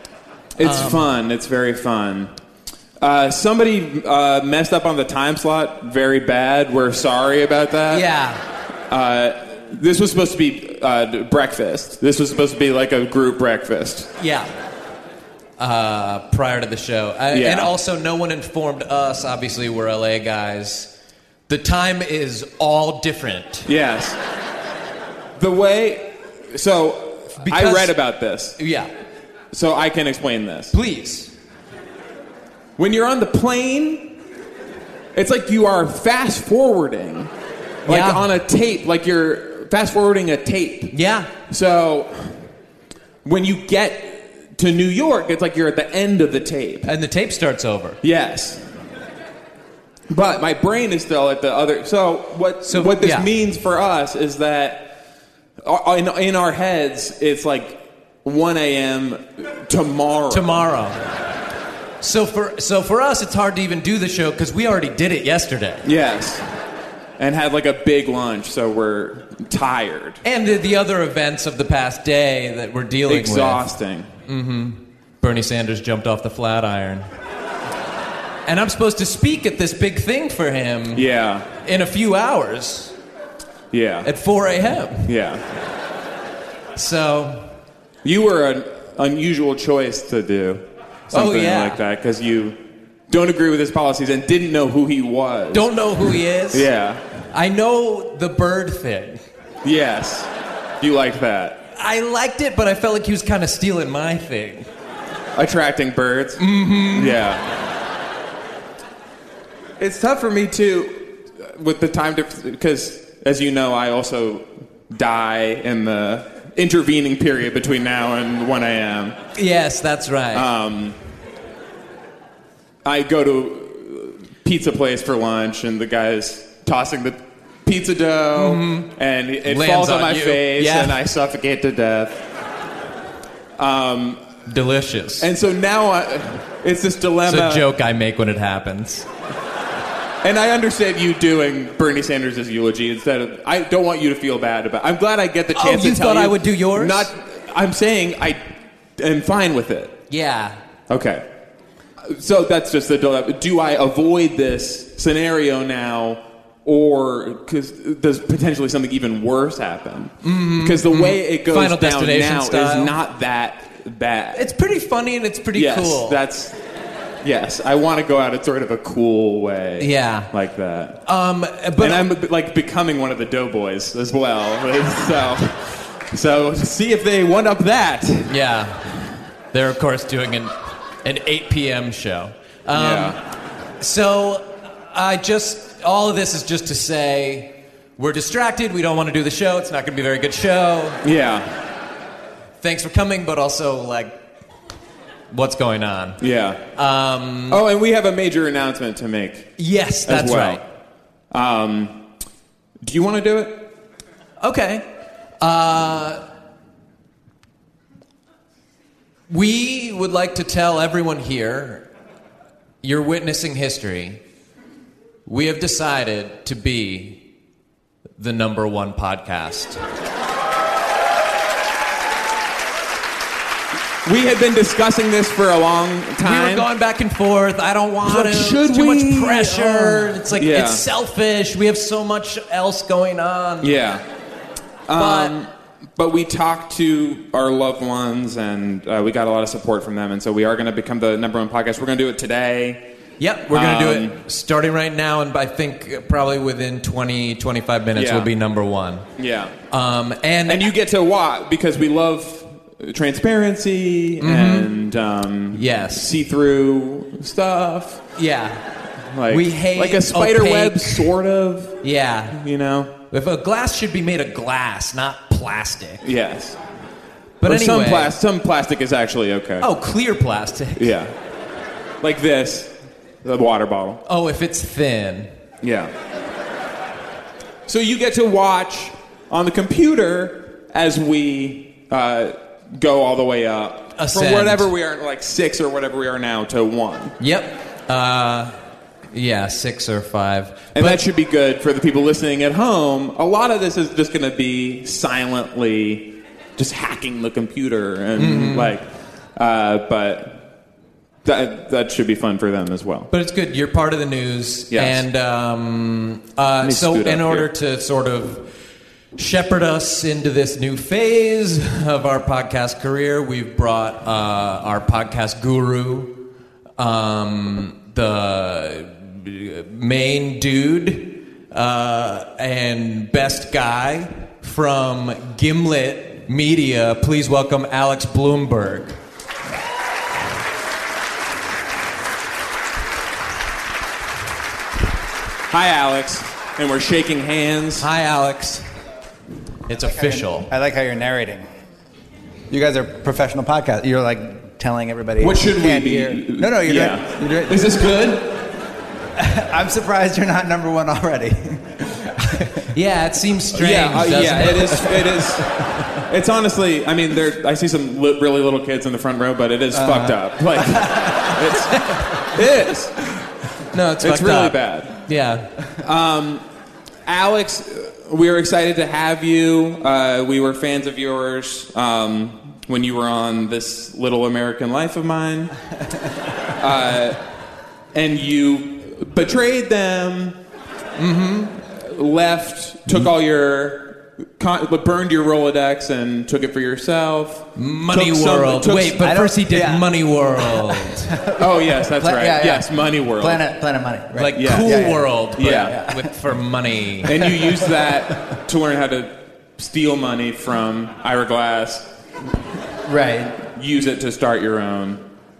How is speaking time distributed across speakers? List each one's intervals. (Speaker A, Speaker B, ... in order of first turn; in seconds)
Speaker A: 0.6-2.3, 3.0-8.0, 8.9-14.1, 17.3-17.7, 23.7-24.2, 25.4-28.6, 29.5-30.7, 32.8-34.1, 35.1-37.3, 37.9-40.9, 41.5-42.4, 43.2-46.9, 48.0-48.6, 50.1-55.0, 55.6-60.6, 65.8-66.5, 67.2-70.2, 73.1-74.1, 80.9-81.5, 83.7-84.1, 85.0-85.4, 88.0-92.6, 93.1-97.0, 99.6-100.3, 100.8-101.6, 105.3-107.5, 109.8-119.2, 120.3-121.0, 122.8-132.2, 133.6-134.2, 135.2-137.6, 140.2-148.4, 149.0-150.0, 150.9-151.2, 152.0-164.4, 165.5-166.5, 167.2-171.0, 171.8-178.3, 182.7-183.2, 191.0-191.5, 196.2-196.6, 197.5-200.6, 201.3-202.0, 202.8-203.6, 224.0-226.7, 228.0-230.8, 233.6-234.0, 234.9-242.8, 243.5-244.2, 247.9-248.3, 249.2-249.5, 250.4-258.0, 259.1-262.9, 266.0-266.6, 267.4-269.7, 270.8-271.1, 272.0-272.7, 273.2-274.0, 275.6-275.9, 277.7-287.1, 290.7-300.4, 301.2-303.1, 304.7-305.0, 306.6-307.5, 335.5-337.9, 345.2-348.4, 353.5-363.0, 364.0-365.1, 365.8-366.4, 367.1-375.5, 376.6-377.2, 377.9-380.4, 381.7-389.1, 391.4-393.4, 394.4-395.8, 397.0-401.9, 403.5-405.0
Speaker B: 0.6-1.1, 7.9-8.4, 14.2-14.5, 15.6-20.9, 21.5-23.7, 27.4-27.9, 28.6-28.9, 30.7-31.3, 37.9-38.2, 40.9-41.3, 46.8-48.0, 52.6-53.3, 60.3-61.0, 62.0-65.8, 70.2-73.6, 74.3-77.0, 78.5-81.0, 81.6-82.9, 84.0-85.1, 86.7-87.5, 91.1-91.8, 95.5-96.7, 97.3-99.2, 101.8-104.7, 106.4-107.2, 119.3-120.4, 128.3-128.9, 129.4-130.9, 134.5-135.3, 137.2-139.1, 145.5-147.1, 150.1-150.6, 160.2-162.9, 164.3-166.2, 169.8-170.3, 171.1-172.1, 178.3-178.9, 179.5-180.5, 181.0-183.2, 183.8-191.0, 192.6-194.2, 195.3-196.2, 196.7-197.6, 199.6-200.6, 204.4-204.8, 205.4-206.2, 209.3-211.9, 212.8-214.2, 215.2-217.2, 218.2-219.8, 226.2-233.8, 234.9-235.3, 243.2-249.1, 249.7-250.7, 254.2-254.7, 255.5-256.1, 258.2-258.6, 259.3-261.1, 261.8-262.4, 263.1-266.0, 267.4-268.1, 269.6-270.9, 274.1-275.3, 284.0-284.7, 287.2-288.6, 289.1-291.0, 298.2-298.7, 303.1-308.5, 309.1-316.2, 316.8-329.0, 337.8-338.6, 339.7-340.5, 352.7-354.8, 363.7-365.5, 381.0-381.5, 387.6-391.1, 394.1-397.1
Speaker C: 339.8-341.4, 342.5-347.8, 349.1-352.6, 354.8-355.7, 359.7-361.5, 389.0-396.1, 397.1-398.1, 402.8-403.4